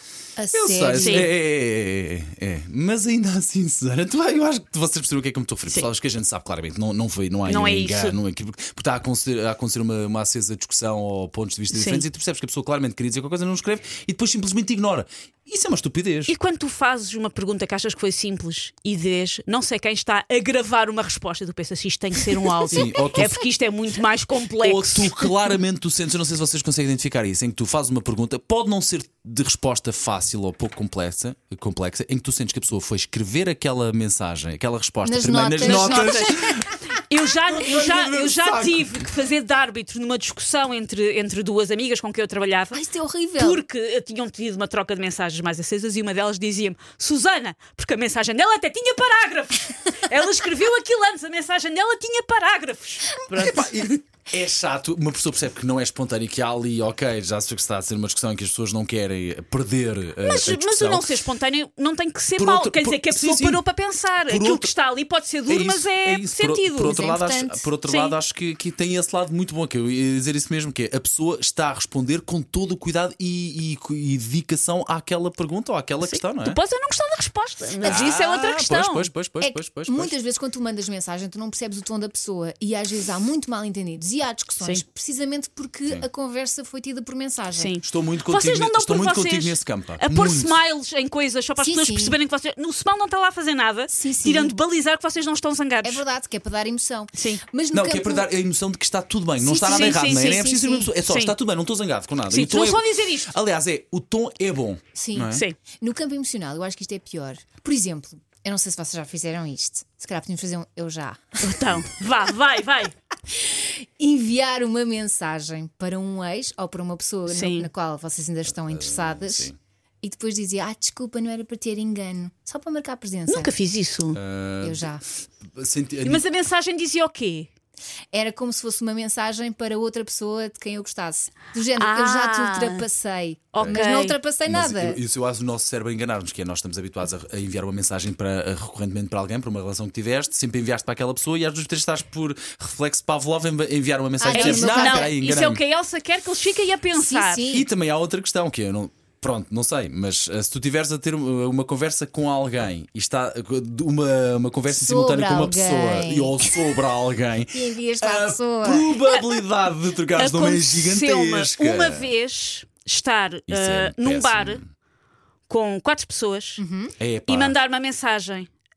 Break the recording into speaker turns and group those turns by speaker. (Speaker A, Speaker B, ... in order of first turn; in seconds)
Speaker A: 0.3-1.3, 35.0-36.7, 42.7-43.6, 66.8-67.7, 79.4-87.8, 91.6-92.2, 93.9-94.6, 95.8-98.3, 99.4-100.9, 104.9-111.7, 113.3-123.5, 124.6-125.0, 128.1-135.0, 144.2-145.1, 146.9-147.7, 154.7-156.6, 157.5-159.0, 166.6-166.9
Speaker B: 0.5-16.3, 22.7-23.4, 24.6-36.8, 37.5-39.0, 53.3-61.1, 62.4-63.6, 64.3-64.7, 65.5-76.6, 77.8-80.1, 87.8-90.5, 97.7-105.5, 118.6-119.5, 124.1-126.2, 134.5-145.6, 147.5-162.1, 163.5-164.6, 167.0-167.6
Speaker C: 0.9-1.3, 7.5-8.2, 11.7-12.0, 16.3-25.4, 35.5-36.4, 36.9-42.8, 43.4-54.0, 60.2-67.0, 67.9-68.2, 76.0-79.1, 87.5-96.0, 97.2-97.4, 99.6-101.3, 102.3-103.3, 111.4-112.9, 117.3-117.7, 123.3-124.2, 126.0-127.5, 131.8-132.8, 133.5-134.2, 144.3-147.5, 160.1-164.6, 165.5-166.6, 167.3-168.5